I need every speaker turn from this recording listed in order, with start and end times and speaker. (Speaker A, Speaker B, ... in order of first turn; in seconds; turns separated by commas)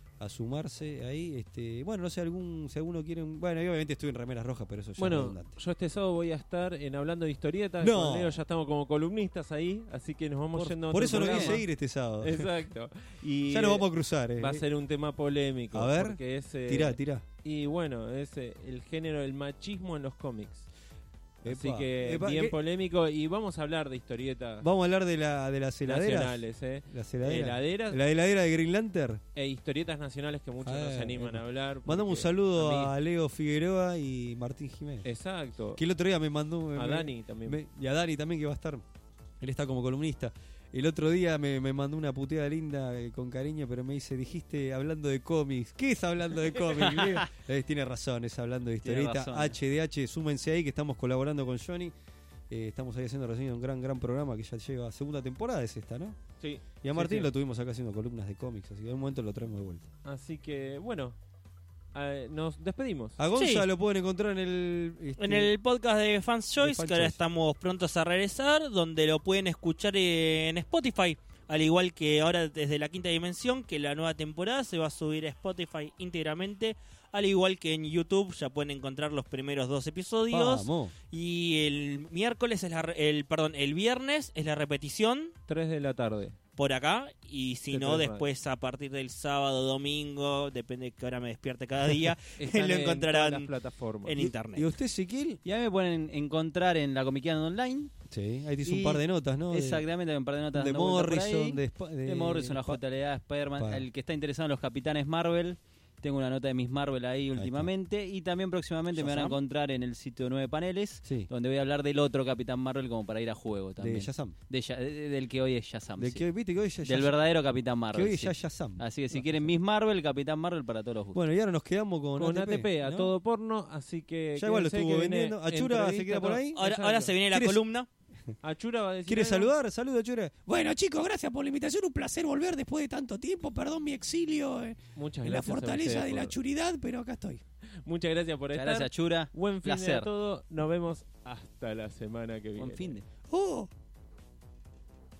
Speaker A: 0.2-5.5, Speaker B: 5.0-11.7, Speaker A: 7.8-8.4, Speaker A: 10.6-12.5, Speaker C: 11.1-11.6, Speaker B: 12.2-13.9, Speaker A: 13.5-14.6, Speaker B: 14.4-20.7, Speaker A: 15.7-17.2, Speaker A: 21.4-22.6, Speaker B: 21.4-24.7, Speaker A: 24.6-29.2, Speaker B: 25.9-28.0, Speaker B: 29.4-32.9, Speaker A: 30.6-35.1, Speaker B: 35.0-35.8, Speaker A: 35.8-38.9, Speaker B: 36.8-37.6, Speaker A: 39.4-51.9, Speaker B: 46.7-47.0, Speaker C: 48.8-49.6, Speaker A: 52.5-56.2, Speaker B: 56.4-57.3, Speaker A: 56.8-59.9, Speaker B: 60.0-61.2, Speaker B: 61.9-63.2, Speaker A: 63.2-65.5, Speaker D: 63.4-63.7, Speaker D: 65.2-85.3, Speaker A: 66.6-67.2, Speaker A: 80.3-80.9, Speaker B: 85.5-86.4, Speaker D: 86.6-93.5, Speaker B: 87.7-88.3, Speaker B: 92.4-94.3, Speaker D: 94.0-94.7, Speaker A: 94.2-95.4, Speaker C: 95.5-97.9, Speaker A: 98.1-99.9, Speaker C: 98.7-116.3, Speaker A: 100.5-102.8, Speaker A: 103.6-103.8, Speaker A: 107.4-107.7, Speaker A: 108.9-109.4, Speaker A: 111.0-111.3, Speaker A: 113.8-114.3, Speaker A: 116.0-117.2, Speaker C: 116.8-121.2, Speaker A: 117.9-119.5, Speaker A: 121.1-123.1, Speaker B: 122.2-127.1, Speaker A: 124.4-126.6, Speaker D: 126.6-127.9, Speaker A: 127.3-127.6, Speaker B: 128.4-129.5, Speaker A: 129.1-130.4, Speaker E: 130.5-137.4, Speaker B: 134.9-136.3, Speaker B: 137.8-143.0, Speaker C: 138.5-140.1, Speaker C: 142.6-143.1, Speaker E: 143.3-143.7